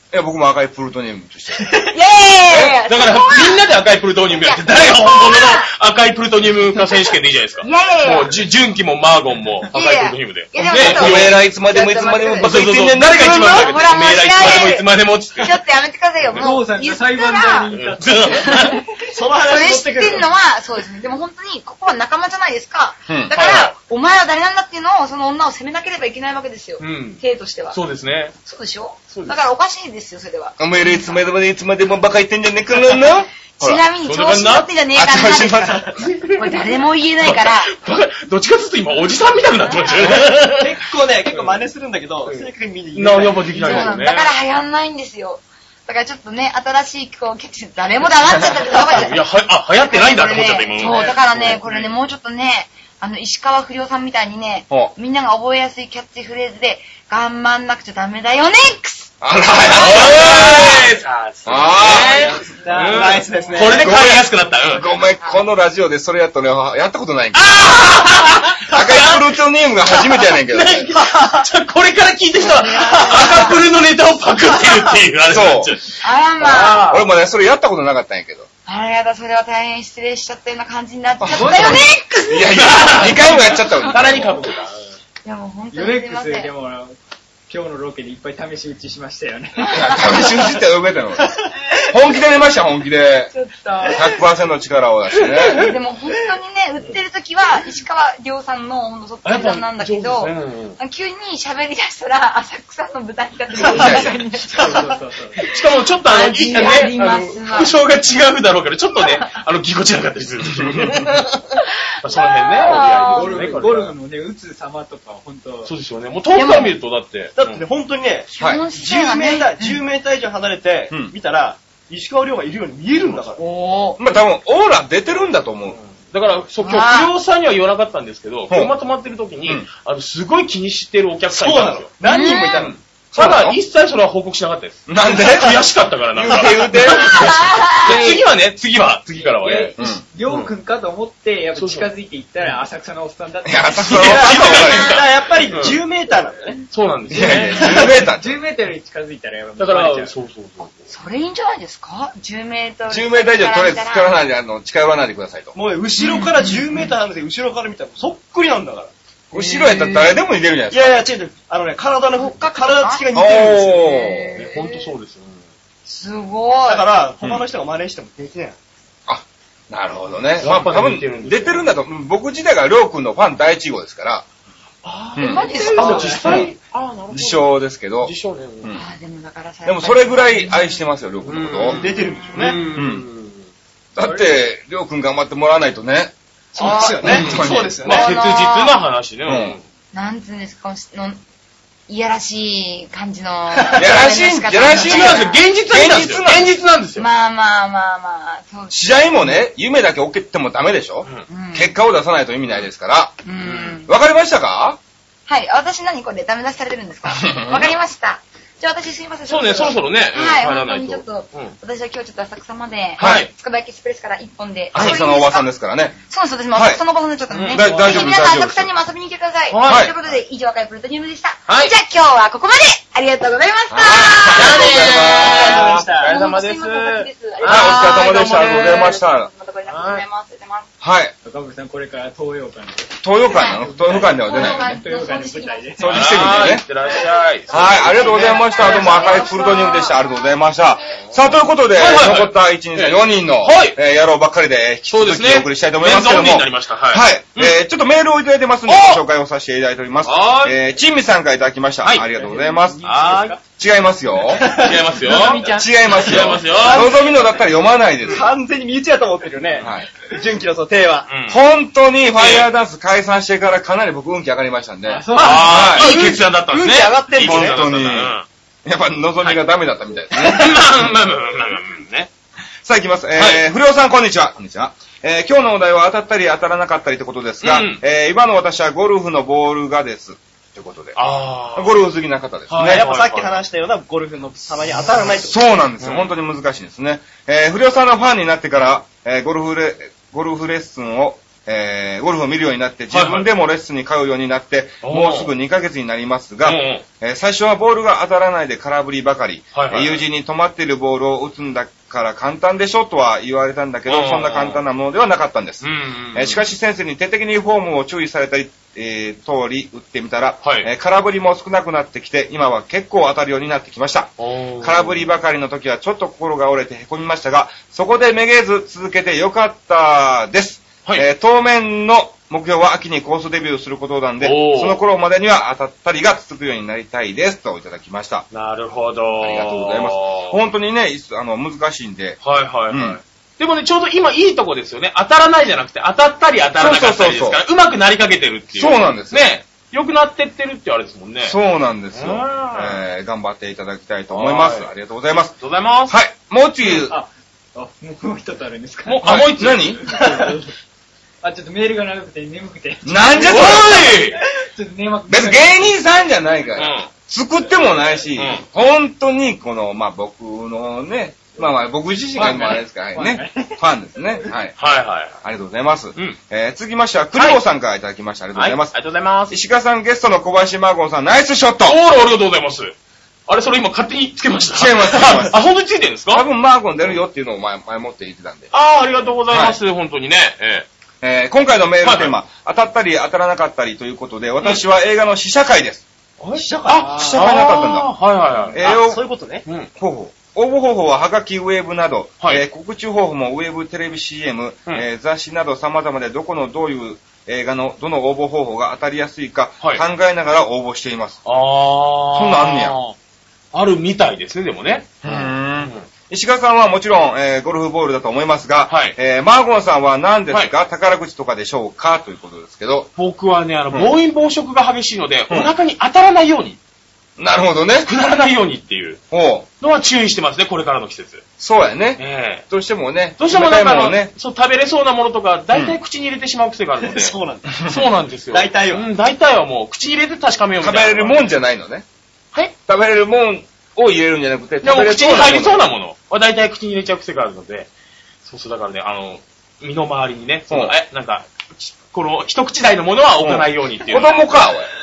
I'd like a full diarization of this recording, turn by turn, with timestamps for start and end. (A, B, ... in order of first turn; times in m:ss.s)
0:00.1-0:01.8 A
0:01.9-0:03.7 B
0:02.5-0:02.8 A
0:02.8-0:11.4 C
0:04.3-0:05.7 B
0:07.6-0:08.4 B
0:09.7-0:17.7 B
0:10.7-0:13.8 A
0:12.4-0:15.6 C
0:16.3-0:18.9 D
0:17.7-0:18.8 C
0:18.4-0:18.9 B
0:19.1-0:20.3 E
0:19.4-0:27.8 B
0:23.1-0:23.4 A
0:23.3-0:23.8 C
0:26.8-0:28.4 C
0:28.4-0:31.2 B
0:29.1-0:29.4 C
0:30.6-0:33.8 A
0:33.5-0:37.8 B
0:34.0-0:34.7 C
0:34.9-0:36.0 A
0:36.0-0:40.8 C
0:40.1-0:44.0 E
0:41.3-0:41.6 C
0:42.3-0:44.3 C
0:43.5-0:49.2 B
0:48.8-0:51.7 C
0:49.8-0:59.1 B
0:50.8-0:51.9 D
0:59.2-1:00.9 A
0:59.7-1:04.9 C
1:01.4-1:02.3 A
1:02.0-1:03.2 D
1:02.1-1:04.0 E
1:03.8-1:08.0 A
1:05.2-1:05.4 B
1:07.4-1:09.3 C
1:08.6-1:11.0 A
1:09.8-1:17.1 C
1:12.4-1:13.7 B
1:15.3-1:15.8 A
1:16.0-1:17.0 B
1:16.4-1:18.5 A
1:18.7-1:24.3 B
1:21.2-1:24.4 A
1:21.3-1:21.8 D
1:22.4-1:24.9 C
1:25.2-1:26.5 B
1:25.7-1:27.0 D
1:27.5-1:30.3 D
1:29.6-1:30.2 B
1:29.7-1:33.3 A
1:33.3-1:34.2 B
1:33.9-1:35.7 A
1:35.2-1:35.7 C
1:35.5-1:44.9 B
1:39.2-1:40.8 C
1:43.7-1:44.2 A
1:43.7-1:44.0 E
1:43.9-1:45.4 D
1:45.4-1:51.4 C
1:46.0-1:47.8 B
1:49.0-1:49.2 B
1:50.6-1:50.9 A
1:51.6-1:53.6 B
1:52.0-1:53.9 C
1:53.0-1:55.7 D
1:55.7-1:57.6 C
1:56.3-1:56.8 B
1:57.4-2:03.4 E
1:58.3-1:59.8 B
1:58.4-1:58.6 A
2:03.4-2:04.0 B
2:04.0-2:05.8 A
2:05.7-2:11.9 C
2:06.6-2:07.1 B
2:11.3-2:12.8 E
2:12.0-2:12.7 B
2:12.6-2:13.6 A
2:12.6-2:19.7 C
2:14.9-2:17.5 A
2:16.8-2:18.2 B
2:17.9-2:18.2 D
2:19.2-2:24.2 D
2:20.3-2:20.5 C
2:21.6-2:21.9 C
2:23.4-2:25.0 A
2:23.7-2:25.8 C
2:24.0-2:26.6 E
2:26.7-2:27.8 C
2:27.1-2:28.4 A
2:27.2-2:30.2 D
2:27.6-2:27.9 E
2:29.6-2:30.9 C
2:30.9-2:34.2 B
2:32.9-2:35.5 A
2:35.5-2:38.9 E
2:36.0-2:36.9 B
2:39.3-2:41.0 A
2:39.4-2:40.2 B
2:40.7-2:43.9 E
2:42.8-2:43.1 B
2:43.1-2:44.4 A
2:43.7-2:44.9 B
2:44.4-2:45.4 C
2:45.9-2:46.9 B
2:46.7-2:48.6 E
2:49.1-2:54.2 A
2:50.4-2:51.7 C
2:54.8-2:58.7 C
2:55.2-2:55.5 A
2:55.2-2:56.3 B
2:55.3-2:56.4 D
2:56.1-2:56.5 A
2:57.1-2:58.8 A
2:58.7-3:00.8 B
2:59.7-3:01.8 A
3:01.2-3:03.5 C
3:01.7-3:02.8 E
3:02.7-3:03.0 A
3:04.0-3:07.8 A
3:06.6-3:08.1 E
3:06.6-3:07.2 B
3:07.0-3:09.6 C
3:07.8-3:08.8 B
3:09.3-3:09.6 A
3:09.9-3:11.2 B
3:11.9-3:15.4 B
3:13.6-3:13.9 E
3:13.8-3:16.5 A
3:14.7-3:17.1 C
3:17.0-3:19.0 B
3:18.7-3:23.2 A
3:21.3-3:21.7 B
3:23.2-3:23.9 B
3:23.4-3:23.8 C
3:23.9-3:24.8 A
3:25.3-3:35.5 B
3:27.1-3:27.7 A
3:29.3-3:31.6 C
3:33.0-3:33.2 A
3:33.0-3:33.3 C
3:34.7-3:35.0 C
3:34.7-3:36.0 A
3:36.0-3:50.7 B
3:36.5-3:36.8 A
3:37.3-3:38.2 C
3:37.5-3:38.7 A
3:39.5-3:39.9 C
3:39.6-3:39.9 A
3:41.5-3:41.8 C
3:43.7-3:45.9 A
3:44.2-3:49.0 C
3:45.2-3:46.2 D
3:47.4-3:49.3 A
3:49.7-3:50.0 C
3:50.8-3:51.1 A
3:51.2-3:56.0 D
3:53.0-3:54.8 A
3:53.3-3:56.6 B
3:55.8-3:56.6 A
3:55.9-3:59.8 C
3:57.5-4:12.9 A
3:57.7-4:00.2 B
4:01.7-4:03.8 C
4:04.9-4:07.6 C
4:08.7-4:09.0 C
4:10.0-4:10.6 C
4:11.8-4:12.1 C
4:12.2-4:13.4 D
4:12.9-4:13.4 C
4:13.6-4:14.5 A
4:14.3-4:15.4 E
4:14.5-4:17.1 C
4:14.9-4:16.2 D
4:15.4-4:18.3 A
4:16.5-4:17.2 E
4:18.1-4:21.1 E
4:19.6-4:19.9 A
4:21.1-4:21.4 C
4:21.3-4:26.2 A
4:22.2-4:22.5 C
4:24.8-4:25.7 D
4:25.2-4:28.3 C
4:25.7-4:27.6 E
4:27.2-4:30.8 A
4:30.1-4:32.1 C
4:32.6-4:41.0 A
4:33.2-4:33.4 C
4:37.4-4:37.8 C
4:41.0-4:41.9 C
4:41.5-4:42.8 A
4:42.5-4:43.4 C
4:42.6-4:45.4 E
4:45.2-5:28.3 A
4:45.8-4:46.1 C
4:52.9-4:53.3 C
4:54.8-4:55.3 C
4:56.4-4:56.8 C
4:59.5-5:00.0 C
5:03.9-5:04.6 C
5:05.6-5:06.4 C
5:10.4-5:10.7 C
5:14.2-5:15.1 C
5:24.2-5:24.8 C
5:28.3-5:30.4 C
5:29.2-5:32.2 A
5:32.2-5:41.4 C
5:32.7-5:33.0 A
5:36.6-5:37.4 A
5:38.6-5:39.2 A
5:41.2-5:45.4 A
5:41.9-5:42.8 C
5:44.1-5:44.7 C
5:45.4-5:46.0 C
5:45.9-5:47.0 A
5:46.9-5:50.6 D
5:48.9-5:49.8 C
5:49.0-5:49.9 A
5:49.9-5:50.3 E
5:51.2-5:55.8 D
5:52.8-5:54.0 A
5:53.2-5:54.2 C
5:55.1-6:04.6 A
5:56.6-5:56.9 C
5:58.2-5:58.4 C
6:02.2-6:03.6 D
6:04.6-6:05.2 C
6:05.2-6:08.7 A
6:07.2-6:07.4 C
6:08.3-6:09.4 C
6:09.3-6:11.8 A
6:11.6-6:12.8 C
6:13.3-6:16.3 C
6:14.5-6:15.4 A
6:16.1-6:18.5 A
6:18.5-6:20.7 C
6:19.3-6:19.6 A
6:21.0-6:25.8 A
6:21.8-6:22.2 C
6:26.2-6:28.6 C
6:26.3-6:27.0 E
6:26.8-6:27.9 A
6:28.5-6:29.0 A
6:28.6-6:29.4 E
6:29.8-6:41.2 A
6:39.6-6:39.8 C
6:41.2-6:43.0 C
6:42.1-6:42.8 A
6:43.5-6:45.9 C
6:45.0-6:52.9 A
6:48.7-6:49.0 C
6:53.0-6:56.6 C
6:57.2-6:57.9 A
6:57.9-6:59.0 C
6:59.1-6:59.5 A
6:59.6-7:01.2 C
7:01.4-7:04.1 A
7:02.0-7:02.4 C
7:03.2-7:11.4 C
7:06.8-7:07.7 E
7:08.3-7:08.9 E
7:10.6-7:11.8 A
7:12.6-7:15.7 A
7:14.6-7:17.7 C
7:18.2-7:24.5 C
7:20.5-7:20.8 A
7:23.2-7:24.7 A